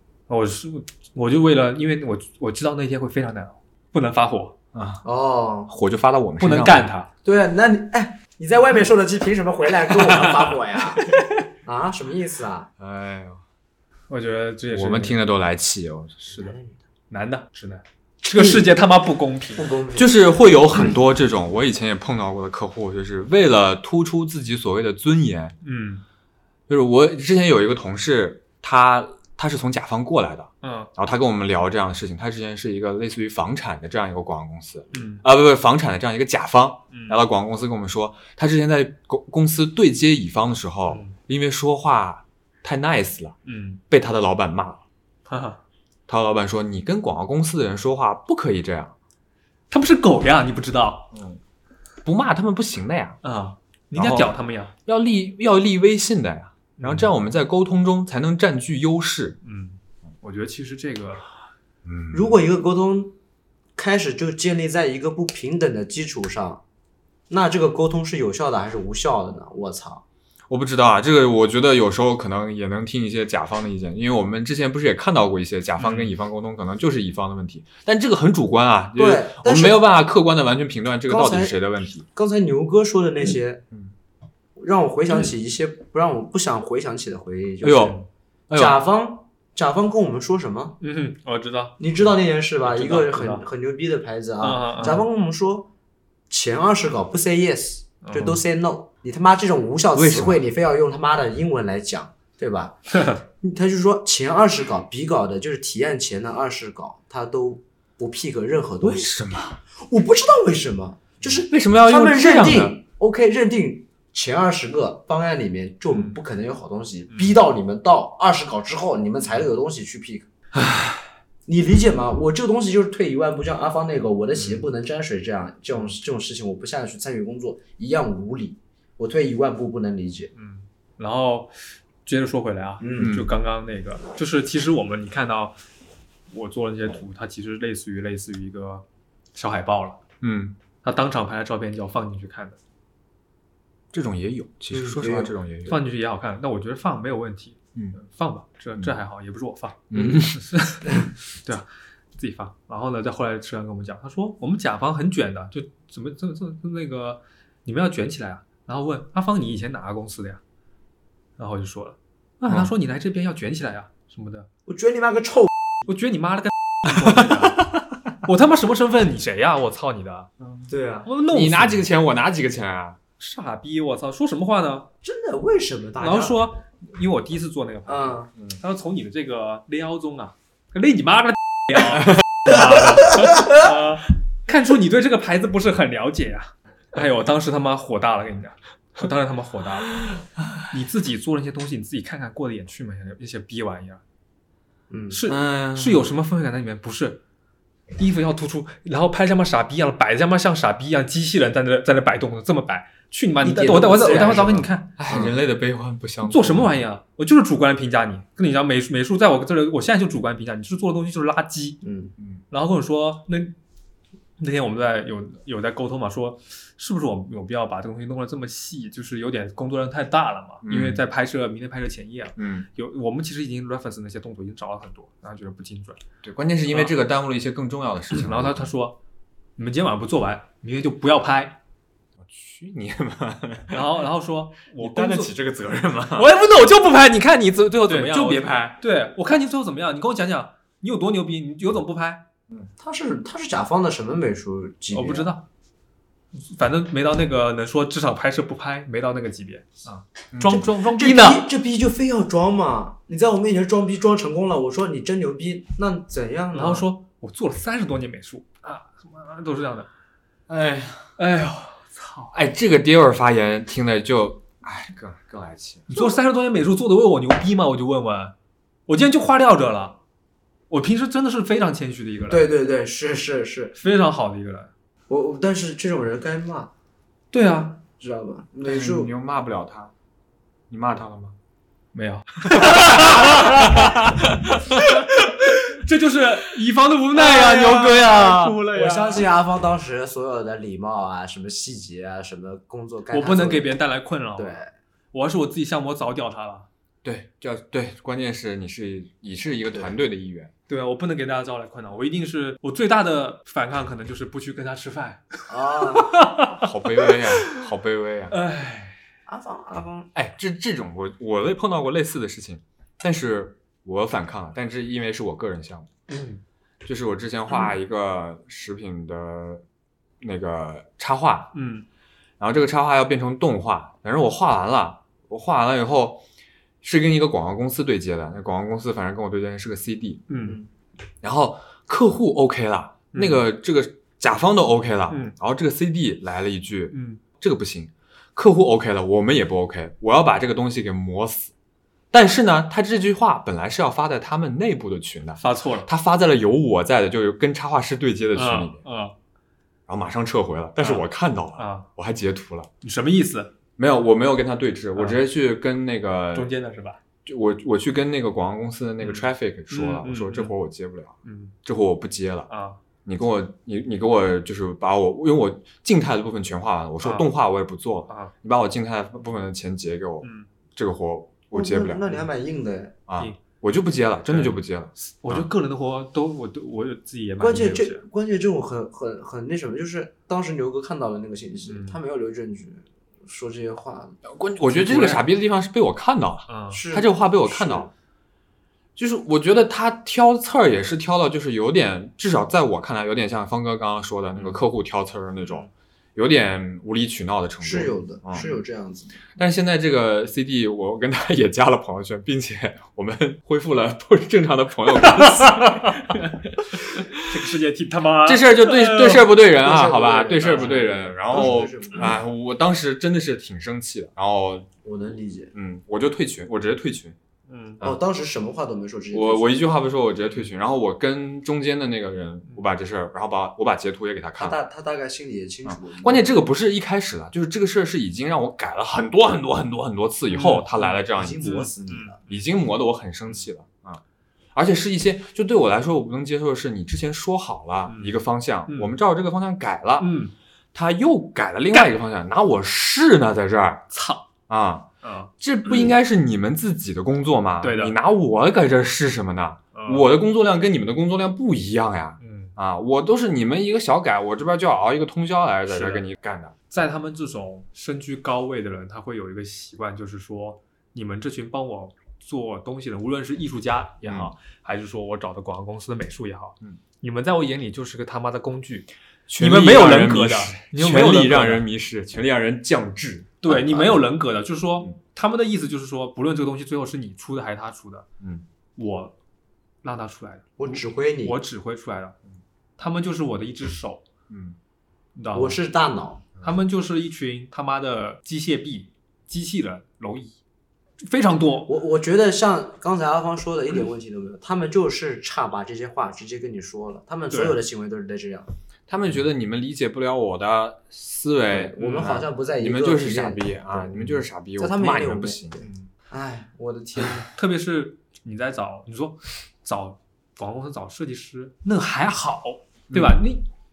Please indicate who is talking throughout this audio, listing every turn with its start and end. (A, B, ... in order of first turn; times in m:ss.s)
0:00.3-0:04.5 A
0:04.7-0:05.0 B
0:05.0-0:05.7 C
0:05.7-0:06.8 B
0:06.4-0:07.1 A
0:07.2-0:11.1 C
0:10.0-0:11.4 A
0:11.6-0:12.7 C
0:12.8-0:13.4 B
0:14.1-0:15.2 A
0:14.7-0:16.3 B
0:16.3-0:16.8 C
0:17.1-0:19.6 A
0:18.3-0:18.6 C
0:19.6-0:20.1 C
0:19.9-0:25.5 B
0:25.6-0:26.0 A
0:26.7-0:43.4 B
0:30.6-0:30.9 A
0:34.9-0:35.2 A
0:36.9-0:37.2 A
0:40.9-0:41.2 A
0:43.4-0:43.8 A
0:43.9-0:44.8 B
0:45.3-0:45.6 A
0:46.1-0:48.9 B
0:49.7-0:51.1 A
0:51.1-0:51.4 B
0:52.0-0:53.2 B
0:53.2-0:54.7 A
0:53.9-0:54.3 B
0:54.8-0:59.4 B
0:56.8-0:57.1 A
0:59.4-1:01.2 A
1:01.8-1:02.4 B
1:02.1-1:03.1 C
1:03.8-1:06.6 C
1:07.3-1:10.0 C
1:10.5-1:22.0 B
1:15.8-1:16.1 A
1:18.9-1:19.8 C
1:21.1-1:23.6 C
1:24.6-1:28.0 C
1:27.6-1:28.8 B
1:28.5-1:30.8 C
1:30.8-1:31.8 A
1:31.8-1:35.7 C
1:32.6-1:33.4 A
1:34.4-1:35.0 A
1:36.3-1:49.2 C
1:38.0-1:38.4 A
1:39.9-1:40.4 B
1:42.9-1:43.2 A
1:48.8-1:49.6 B
1:49.8-2:00.3 C
1:51.3-1:52.8 B
1:55.9-1:56.2 A
1:57.1-1:57.4 A
2:00.6-2:01.0 B
2:01.4-2:10.3 C
2:10.3-2:11.5 A
2:12.0-2:15.6 A
2:12.8-2:13.2 C
2:13.0-2:13.3 B
2:16.3-2:20.0 A
2:20.2-2:20.6 B
2:20.8-2:22.6 A
2:23.9-2:25.8 B
2:24.7-2:25.3 C
2:25.6-2:40.4 A
2:29.9-2:30.4 B
2:41.4-2:44.5 A
2:44.6-2:45.5 C
2:45.8-2:50.3 A
2:50.4-2:50.7 B
2:50.7-2:51.1 C
2:51.0-2:51.8 A
2:51.3-2:53.0 B
2:53.2-2:54.9 A
2:55.0-2:56.4 C
2:56.0-3:10.0 A
2:57.9-2:58.3 C
3:10.7-3:14.0 A
3:14.9-3:15.2 C
3:15.1-3:17.2 A
3:15.3-3:16.1 B
3:18.0-3:24.9 A
3:23.4-3:25.3 C
3:24.1-3:26.7 B
3:26.2-3:31.8 A
3:31.8-3:32.1 C
3:32.5-3:33.5 A
3:34.4-3:46.0 A
3:40.6-3:41.0 B
3:42.4-3:42.7 B
3:46.2-3:48.7 B
3:46.7-3:46.9 A
3:48.1-3:49.0 A
3:49.6-3:51.6 A
3:52.2-3:53.9 B
3:53.7-3:55.3 A
3:54.8-3:56.3 B
3:56.1-4:02.2 A
3:57.9-3:58.7 B
4:02.8-4:05.3 C
4:04.9-4:05.4 A
4:06.3-4:11.5 A
4:10.3-4:10.6 B
4:10.4-4:16.8 C
4:16.5-4:19.9 A
4:20.5-4:21.2 B
4:21.2-4:22.3 A
4:22.3-4:25.9 B
4:25.9-4:28.3 A
4:28.9-4:30.0 A
4:30.7-4:32.5 A
4:32.3-4:33.8 C
4:33.8-4:34.7 A
4:35.1-4:36.7 C
4:37.3-4:37.8 A
4:37.8-4:39.1 C
4:38.6-4:39.9 B
4:40.7-4:41.4 B
4:41.9-4:49.2 A
4:42.5-4:44.5 B
4:47.2-4:53.7 C
4:53.1-4:54.6 A
4:54.4-4:54.7 C
4:55.1-4:56.7 A
4:57.0-5:00.5 B
5:00.7-5:07.6 A
5:05.5-5:06.2 C
5:06.5-5:08.4 B
5:08.3-5:09.0 A
5:09.3-5:10.1 C
5:10.1-5:15.9 B
5:16.1-5:16.4 A
5:16.8-5:19.6 B
5:20.2-5:21.5 B
5:21.5-5:21.8 A
5:22.4-5:26.2 B
5:26.8-5:30.2 B
5:30.3-5:30.6 A
5:30.4-5:30.7 C
5:31.2-5:41.5 B
5:33.1-5:33.4 A
5:35.1-5:35.3 A
5:36.9-5:37.2 A
5:42.1-5:48.8 B
5:45.4-5:45.9 A
5:48.3-5:49.1 A
5:49.9-5:52.7 B
5:50.8-5:51.9 A
5:52.8-5:53.5 A
5:53.8-5:56.5 B
5:54.9-5:55.2 A
5:56.3-5:57.0 A
5:57.2-6:02.5 B
5:59.0-6:00.5 A
6:01.2-6:01.5 A
6:02.5-6:02.8 A
6:03.0-6:12.1 B
6:07.0-6:07.3 A
6:08.1-6:08.3 A
6:10.2-6:10.5 A
6:11.5-6:12.9 C
6:13.1-6:15.5 B
6:14.3-6:18.0 A
6:17.4-6:24.2 C
6:21.6-6:22.0 A
6:24.2-6:27.9 B
6:24.7-6:25.2 A
6:26.5-6:26.8 A
6:26.7-6:27.9 C
6:29.0-6:38.5 B
6:35.4-6:35.7 A
6:37.6-6:39.2 C
6:39.4-6:47.2 B
6:45.0-6:46.4 A
6:47.1-6:49.3 A
6:48.2-6:54.7 B
6:49.4-6:52.2 C
6:50.4-6:51.1 A
6:54.8-6:55.5 C
6:55.5-6:57.2 B
6:57.5-6:57.8 A
6:57.8-6:59.6 C
6:59.1-7:04.6 B
7:04.4-7:06.4 C
7:05.6-7:11.7 B
7:10.3-7:12.4 A
7:10.8-7:12.2 C
7:12.2-7:14.0 B
7:14.5-7:20.1 B
7:17.9-7:18.9 A
7:20.0-7:20.3 A
7:20.7-7:23.8 B
7:23.9-7:24.3 A
7:24.5-7:24.9 B
7:25.0-7:25.3 A
7:25.4-7:36.5 B
7:27.6-7:27.9 A
7:29.7-7:30.1 A
7:32.2-7:32.5 A
7:35.7-7:36.0 A
7:36.7-7:51.6 A
7:44.0-7:44.3 B
7:49.3-7:54.0 B
7:53.4-7:58.1 A
7:58.8-7:59.1 A
7:59.8-8:02.2 A
8:00.6-8:01.4 C
8:02.8-8:04.0 A
8:04.3-8:04.6 B
8:05.2-8:05.6 A
8:05.3-8:06.3 C
8:06.4-8:10.4 A
8:11.0-8:11.7 A
8:11.7-8:18.5 C
8:17.3-8:17.6 A
8:18.9-8:25.6 B
8:21.5-8:27.3 C
8:21.8-8:22.1 A
8:25.6-8:25.9 A
8:27.3-8:33.5 A
8:32.9-8:33.2 B